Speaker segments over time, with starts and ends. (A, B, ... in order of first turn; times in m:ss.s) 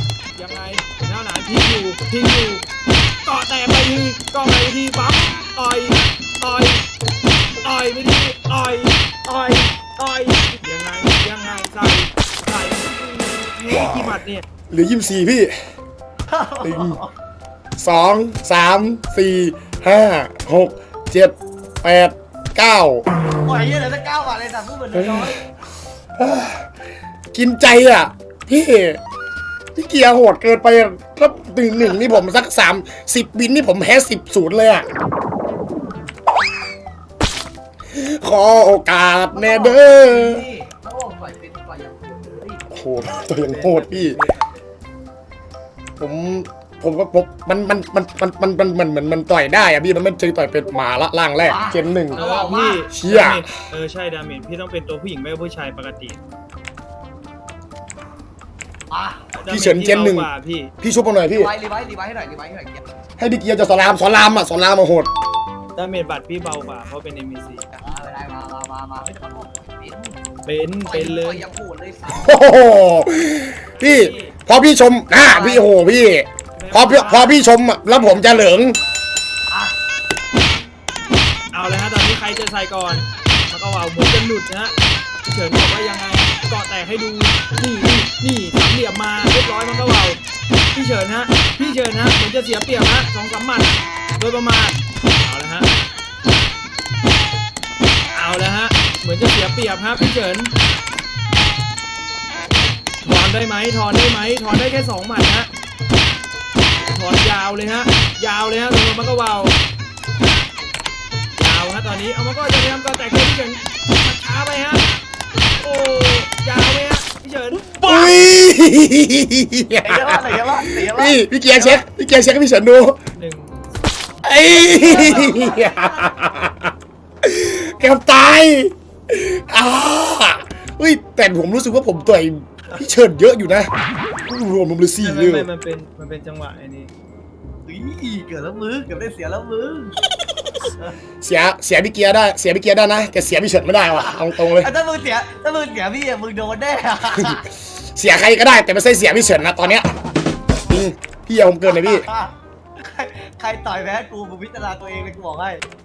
0:00.4-0:02.6 A
0:03.2-0:06.8 A
0:07.6-0:14.4 A
0:14.7-0:15.5 B
0:16.3-0:17.1 C
0:16.6-0:17.0 B
0:17.8-0:23.0 B
0:23.4-0:25.4 C
0:25.0-0:25.3 B
0:26.2-0:26.6 B
0:27.3-0:29.0 B
0:29.8-0:34.9 B
0:37.9-0:40.4 B
0:39.3-0:42.7 C
0:42.7-0:44.2 B
0:43.6-0:44.4 A
0:46.0-0:52.2 B
0:51.4-0:52.9 C
0:52.1-0:56.2 A
0:52.9-0:53.5 B
0:58.9-0:59.3 C
0:59.4-1:00.7 A
0:59.5-1:00.3 B
1:00.8-1:01.5 B
1:01.3-1:02.9 C
1:03.2-1:05.1 B
1:05.8-1:07.7 A
1:07.7-1:10.2 C
1:10.5-1:11.4 A
1:10.8-1:12.4 C
1:12.1-1:18.8 B
1:13.8-1:14.3 C
1:15.2-1:15.7 C
1:16.6-1:17.4 A
1:17.9-1:18.3 C
1:21.5-1:30.2 A
1:30.7-1:35.7 A
1:38.1-1:40.5 A
1:43.0-1:45.5 A
1:46.9-1:49.6 A
1:51.4-1:54.9 A
1:55.6-1:58.2 A
1:57.8-2:03.0 B
1:59.8-2:01.8 C
2:03.1-2:04.0 A
2:04.2-2:06.7 B
2:04.7-2:05.9 C
2:07.2-2:13.7 B
2:14.3-2:15.5 B
2:15.0-2:16.9 A
2:17.7-2:20.0 C
2:20.7-2:21.0 C
2:21.2-2:24.7 B
2:23.9-2:27.4 C
2:27.2-2:29.9 B
2:30.7-2:32.1 B
2:31.7-2:35.6 C